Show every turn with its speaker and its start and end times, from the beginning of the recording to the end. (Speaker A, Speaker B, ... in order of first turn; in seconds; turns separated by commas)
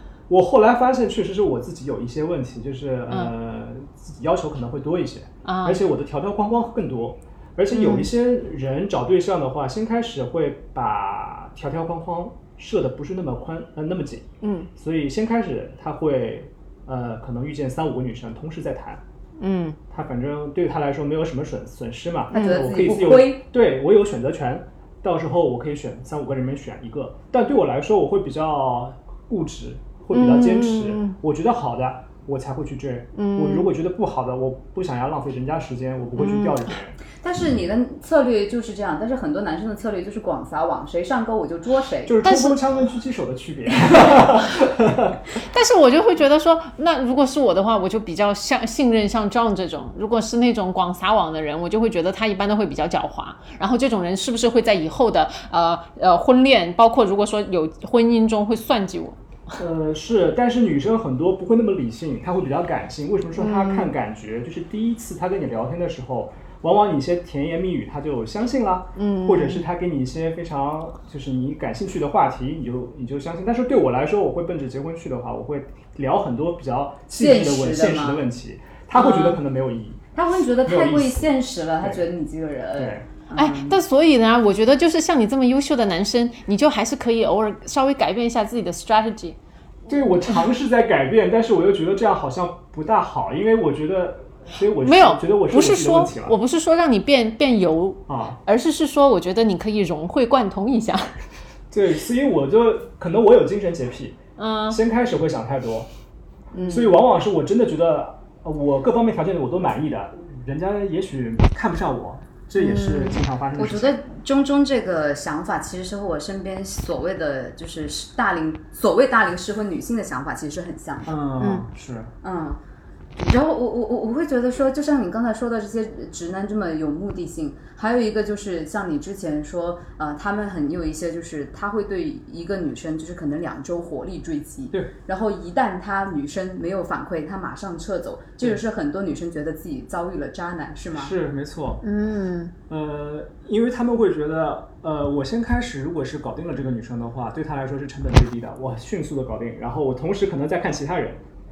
Speaker A: 0.3-19.0, Speaker B: 5.5-5.8, Speaker B: 7.7-8.1, Speaker B: 14.4-14.7, Speaker B: 19.4-19.8, Speaker A: 19.9-37.0, Speaker C: 22.3-23.4, Speaker B: 22.3-22.6, Speaker B: 30.1-31.1, Speaker B: 33.1-33.7, Speaker B: 36.2-36.7, Speaker C: 37.2-42.2, Speaker A: 42.1-45.3, Speaker B: 42.2-42.6, Speaker B: 45.4-59.2, Speaker A: 59.6-80.0, Speaker B: 63.4-63.9, Speaker B: 69.0-69.6, Speaker C: 77.2-78.3, Speaker B: 78.9-79.4, Speaker C: 80.2-83.8, Speaker A: 80.6-82.0, Speaker A: 82.8-83.0, Speaker B: 83.3-89.4, Speaker A: 89.9-96.4, Speaker B: 94.8-101.1, Speaker A: 98.1-98.4, Speaker A: 101.7-104.2, Speaker B: 104.4-104.8, Speaker A: 104.7-105.9, Speaker B: 106.5-106.9, Speaker A: 106.7-113.9, Speaker B: 112.6-113.2, Speaker C: 113.6-121.2, Speaker A: 121.0-122.1, Speaker B: 121.4-121.7, Speaker C: 122.2-122.6, Speaker C: 123.2-141.2, Speaker A: 140.9-141.8, Speaker B: 141.8-142.5, Speaker A: 142.7-151.2